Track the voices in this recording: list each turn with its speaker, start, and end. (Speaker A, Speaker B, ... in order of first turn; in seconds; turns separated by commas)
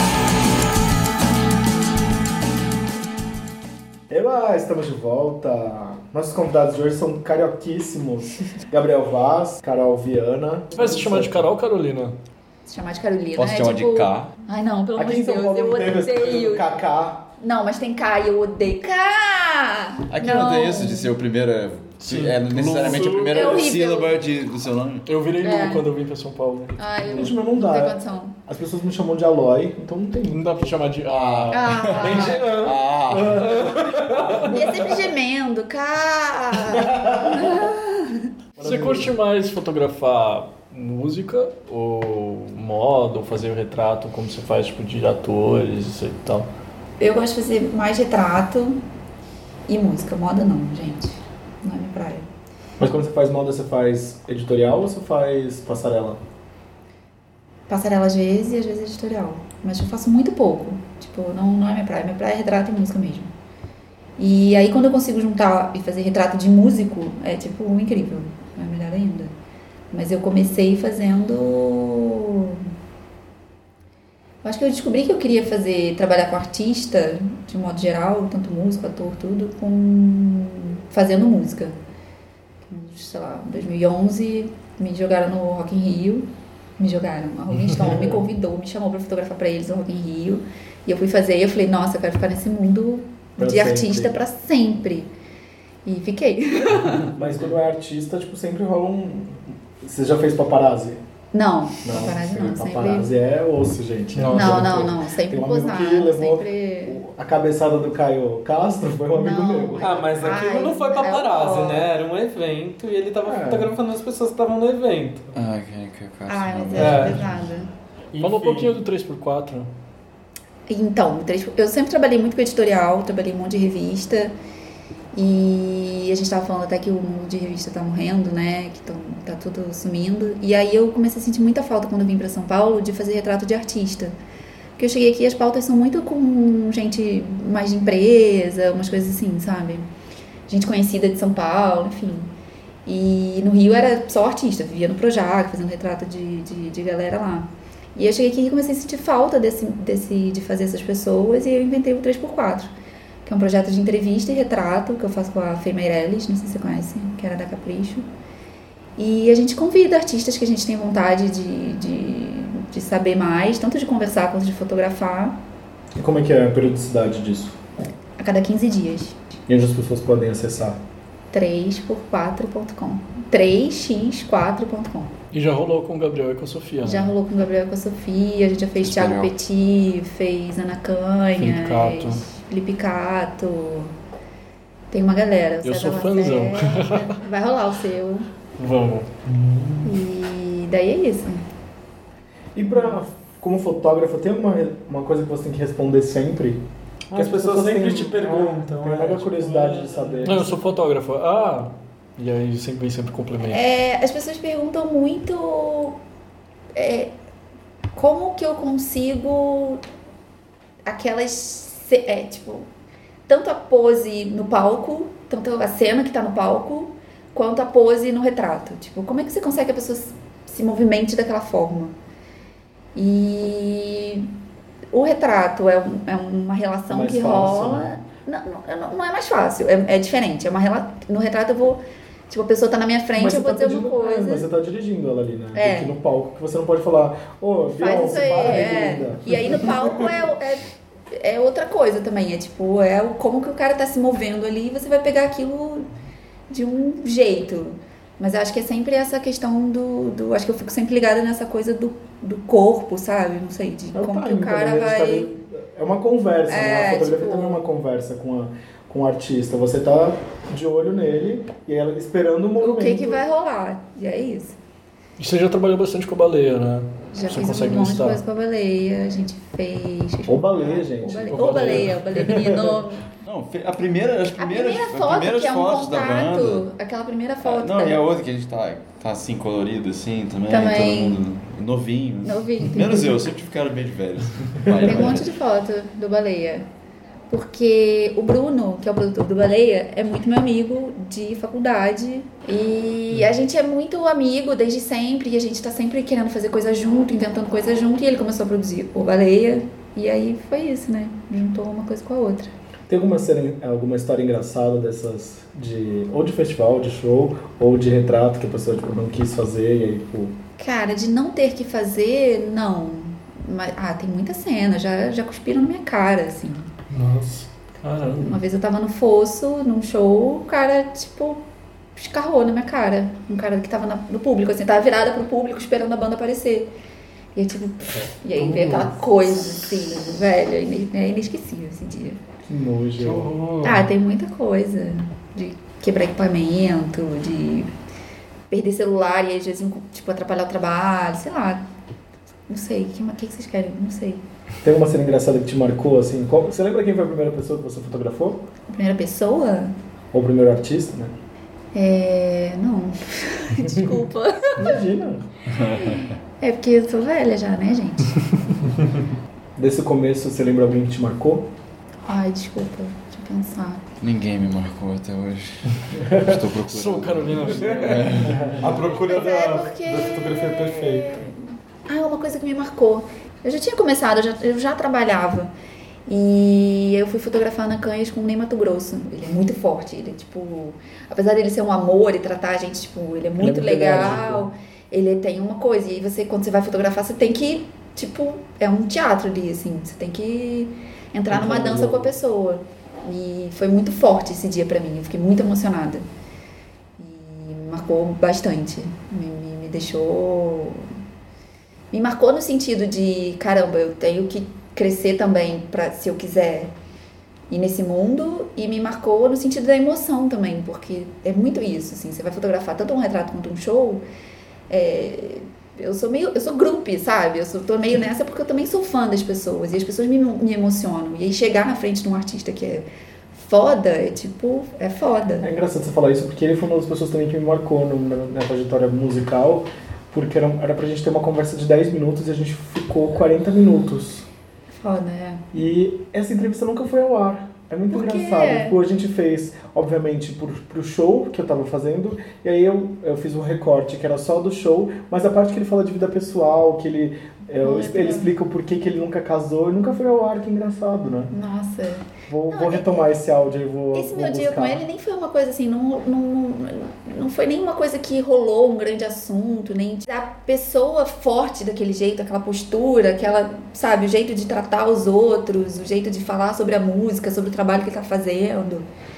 Speaker A: 4.1-11.5, Speaker B: 10.8-12.2, Speaker C: 12.7-16.7, Speaker D: 13.4-14.3, Speaker A: 15.0-17.3, Speaker C: 17.4-21.1, Speaker D: 20.1-25.1, Speaker B: 22.0-23.7, Speaker C: 22.9-24.2, Speaker B: 25.1-27.2, Speaker C: 25.4-25.9, Speaker C: 26.8-28.4, Speaker A: 27.1-30.8, Speaker B: 30.3-31.8, Speaker D: 31.1-33.6, Speaker C: 31.5-32.5, Speaker E: 32.0-34.7, Speaker A: 33.1-33.7, Speaker C: 34.4-38.3, Speaker A: 38.6-39.1, Speaker B: 38.6-46.5, Speaker C: 47.0-48.8, Speaker C: 49.7-52.3, Speaker A: 52.8-56.2, Speaker C: 57.7-63.3, Speaker C: 64.2-69.3, Speaker C: 69.9-72.7, Speaker C: 74.4-81.8, Speaker C: 82.7-95.1, Speaker A: 93.4-94.2, Speaker C: 95.8-97.2, Speaker A: 97.1-101.0, Speaker C: 101.3-103.1, Speaker A: 101.8-109.9, Speaker B: 104.2-104.9, Speaker C: 104.3-107.0, Speaker C: 109.1-111.9, Speaker E: 109.8-115.3, Speaker A: 113.2-113.7, Speaker D: 115.3-117.3, Speaker C: 116.3-117.7, Speaker E: 116.7-117.2, Speaker E: 118.1-118.8, Speaker B: 118.2-119.7, Speaker C: 120.7-124.3, Speaker C: 125.1-134.2, Speaker C: 134.8-139.9, Speaker C: 140.5-142.3, Speaker C: 142.9-152.7, Speaker C: 153.2-158.1, Speaker C: 159.0-165.4, Speaker A: 166.0-167.6, Speaker C: 168.2-169.2, Speaker A: 169.5-170.8, Speaker C: 171.3-175.2, Speaker B: 175.3-177.2, Speaker C: 176.8-183.9, Speaker D: 178.8-179.3, Speaker B: 181.4-182.3, Speaker C: 184.9-188.3, Speaker B: 185.6-187.2, Speaker B: 188.6-189.6, Speaker C: 189.8-191.4, Speaker A: 192.6-200.6, Speaker E: 197.1-200.2, Speaker B: 200.2-203.6, Speaker C: 203.5-206.0, Speaker C: 206.7-207.1, Speaker C: 207.9-209.8, Speaker C: 210.8-212.7, Speaker C: 213.3-221.9, Speaker C: 222.9-224.3, Speaker C: 224.9-234.5, Speaker A: 226.9-227.9, Speaker A: 233.2-239.7, Speaker C: 235.6-235.9, Speaker C: 237.7-245.9, Speaker C: 246.5-255.3, Speaker A: 253.9-263.2, Speaker C: 256.5-257.7, Speaker C: 262.6-264.6, Speaker B: 265.2-268.2, Speaker C: 267.1-273.1, Speaker A: 270.3-272.8, Speaker B: 271.3-272.0, Speaker D: 273.2-276.7, Speaker C: 274.4-278.0, Speaker D: 277.4-285.3, Speaker C: 280.5-281.2, Speaker C: 282.2-283.2, Speaker C: 284.8-286.7, Speaker C: 287.3-302.5, Speaker A: 302.9-310.4, Speaker C: 310.6-316.7, Speaker E: 316.9-317.4, Speaker B: 317.8-318.4, Speaker C: 318.2-321.4, Speaker C: 322.0-326.7, Speaker C: 327.4-332.2, Speaker B: 328.4-328.9, Speaker A: 332.5-333.3, Speaker B: 333.0-333.9, Speaker C: 333.6-337.7, Speaker C: 338.5-341.6, Speaker C: 342.5-344.2, Speaker A: 344.6-348.5, Speaker C: 348.7-349.7, Speaker A: 350.1-351.1, Speaker C: 351.7-354.9, Speaker A: 354.6-355.3, Speaker D: 355.5-356.1, Speaker C: 355.6-358.2, Speaker A: 359.6-361.5, Speaker C: 362.1-363.8, Speaker D: 364.0-368.5, Speaker B: 366.6-368.3, Speaker E: 367.6-371.1, Speaker A: 368.2-368.7, Speaker C: 368.8-375.5, Speaker C: 376.1-396.1, Speaker A: 383.4-384.5, Speaker A: 391.3-392.1, Speaker C: 397.0-400.9, Speaker C: 401.9-406.7, Speaker C: 407.5-414.0, Speaker C: 414.7-425.5, Speaker A: 425.4-434.3, Speaker C: 434.7-435.4, Speaker A: 435.5-451.3, Speaker C: 437.9-438.8, Speaker C: 447.6-448.3, Speaker C: 451.3-453.1, Speaker A: 452.3-454.8, Speaker C: 453.9-468.9